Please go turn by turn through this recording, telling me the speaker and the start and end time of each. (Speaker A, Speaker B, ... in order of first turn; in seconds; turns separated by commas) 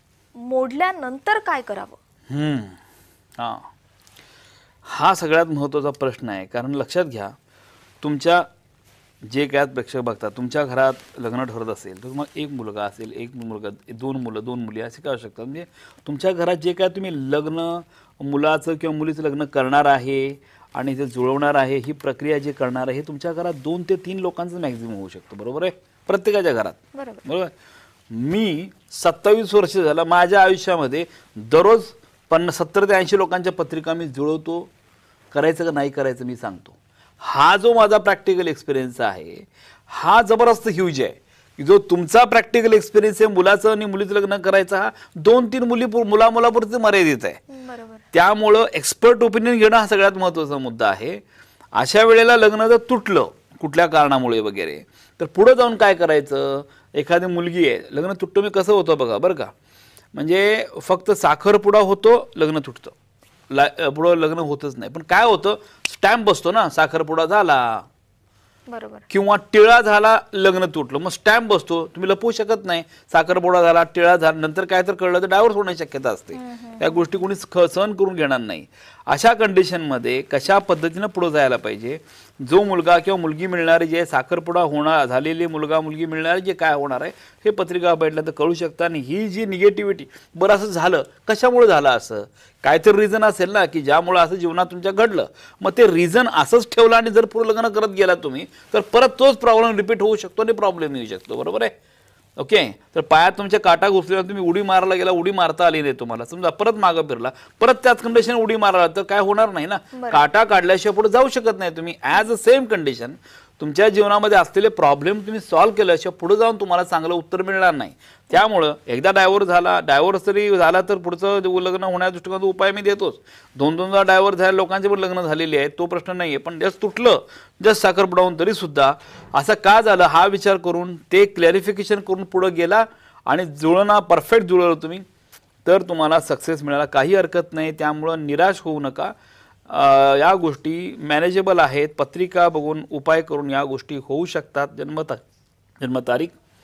Speaker A: 0.4-2.0, Speaker B: 2.3-2.8, Speaker B: 3.4-3.7, Speaker B: 4.8-7.3, Speaker B: 8.0-8.4, Speaker B: 9.2-27.5, Speaker A: 26.9-27.2, Speaker B: 28.1-34.7, Speaker B: 35.3-47.4, Speaker A: 47.5-48.0, Speaker B: 48.1-51.2, Speaker B: 51.8-59.5, Speaker B: 60.1-62.9, Speaker B: 63.5-67.8, Speaker A: 68.7-69.0, Speaker B: 69.1-101.7, Speaker A: 76.3-77.0, Speaker B: 102.4-135.0, Speaker A: 109.9-110.2, Speaker B: 135.6-139.1, Speaker B: 139.7-145.2, Speaker B: 145.8-146.3